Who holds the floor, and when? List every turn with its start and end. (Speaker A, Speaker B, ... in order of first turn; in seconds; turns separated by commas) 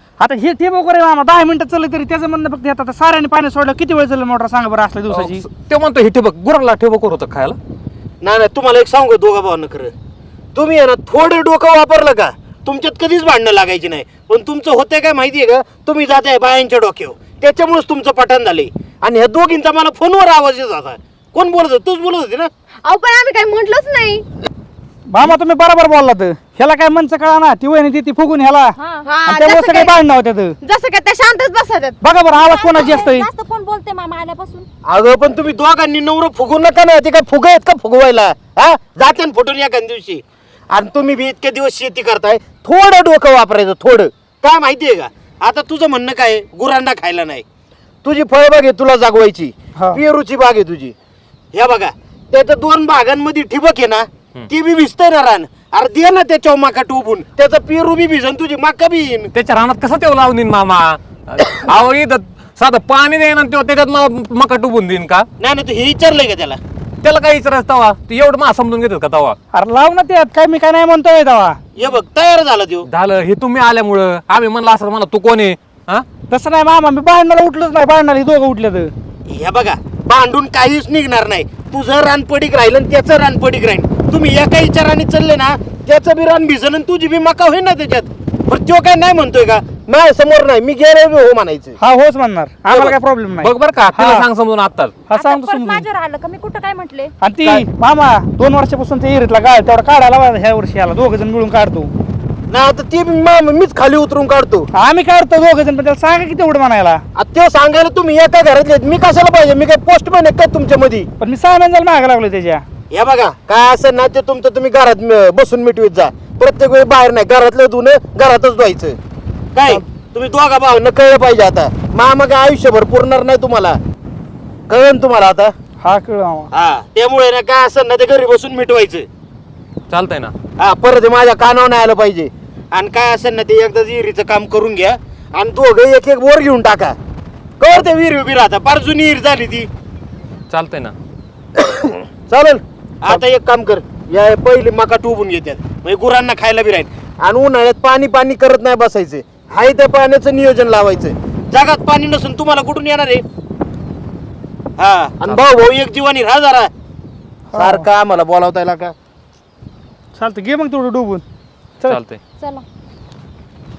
Speaker A: 0.2-5.4, Speaker B: 5.1-7.6, Speaker C: 8.2-9.9, Speaker C: 10.5-22.5, Speaker D: 22.8-24.2, Speaker A: 25.1-28.7, Speaker E: 28.8-29.1, Speaker D: 29.0-29.9, Speaker A: 29.3-30.6, Speaker D: 30.6-32.0, Speaker A: 32.0-33.3, Speaker E: 32.3-34.6, Speaker C: 34.9-47.4, Speaker C: 48.0-50.9, Speaker C: 51.5-59.3, Speaker B: 59.3-65.3, Speaker C: 65.4-66.6, Speaker B: 67.0-69.4, Speaker A: 69.5-71.6, Speaker C: 71.8-72.9, Speaker B: 72.8-76.0, Speaker A: 76.3-78.9, Speaker C: 79.3-91.8, Speaker A: 91.8-94.2, Speaker B: 92.7-95.0, Speaker A: 95.1-95.8, Speaker E: 95.1-97.1, Speaker A: 97.2-101.9, Speaker C: 102.5-104.7, Speaker A: 104.7-107.0, Speaker C: 107.1-111.1, Speaker A: 111.2-112.6, Speaker C: 112.9-119.0, Speaker C: 119.5-123.8, Speaker C: 124.7-125.5, Speaker A: 125.8-126.5, Speaker C: 126.5-129.1, Speaker B: 129.9-130.3, Speaker C: 130.6-136.9, Speaker C: 137.6-139.7, Speaker B: 140.5-140.9, Speaker C: 141.6-153.2, Speaker C: 154.8-156.7, Speaker A: 157.5-157.9, Speaker C: 157.5-158.9, Speaker A: 160.1-161.2, Speaker B: 161.8-162.2, Speaker E: 162.4-162.6